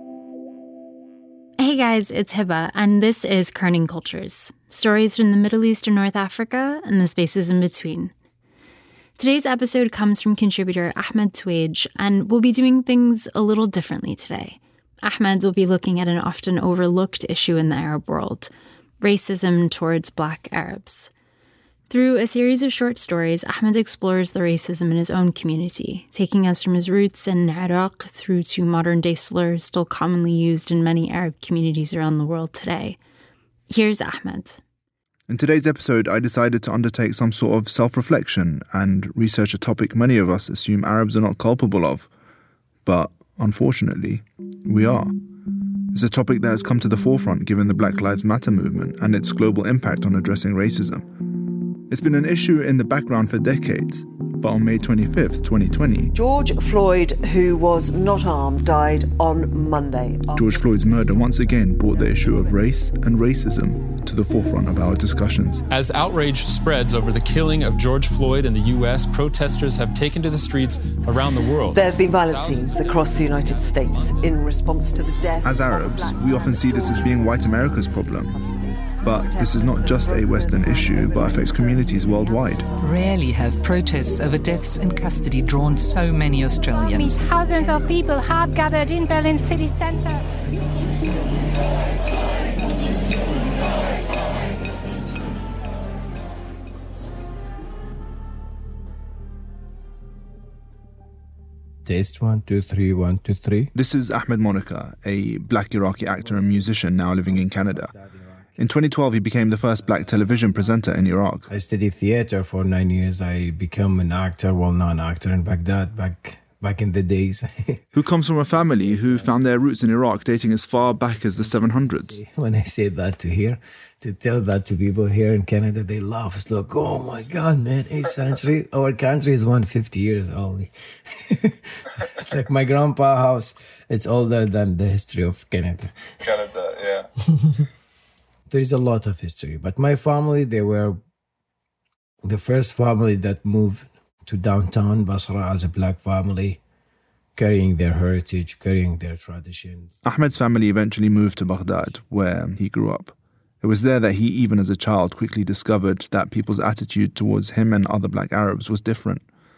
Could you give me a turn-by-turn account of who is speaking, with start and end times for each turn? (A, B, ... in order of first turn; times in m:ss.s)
0:01.6-0:08.1 A
0:09.2-0:21.1 A
0:21.9-0:33.0 A
0:33.7-0:34.6 A
0:35.3-0:42.1 B
0:42.8-0:45.1 B
0:45.9-0:51.0 B
0:51.9-0:56.1 B
0:56.1-1:01.5 C
1:00.3-1:05.6 B
1:05.7-1:14.3 D
1:11.7-1:22.5 C
1:15.4-1:18.4 B
1:19.0-1:22.7 B
1:22.8-1:27.2 E
1:26.8-1:30.3 F
1:41.8-1:43.7 G
1:43.8-1:47.9 B
1:46.2-1:48.6 G
1:48.6-1:51.5 B
1:49.8-1:50.8 G
1:51.5-1:57.9 G
1:58.0-2:02.2 B
1:58.5-2:16.6 G
2:17.4-2:17.7 G
2:18.5-2:21.0 G
2:22.2-2:26.6 G
2:27.4-2:30.0 G
2:30.0-2:39.2 B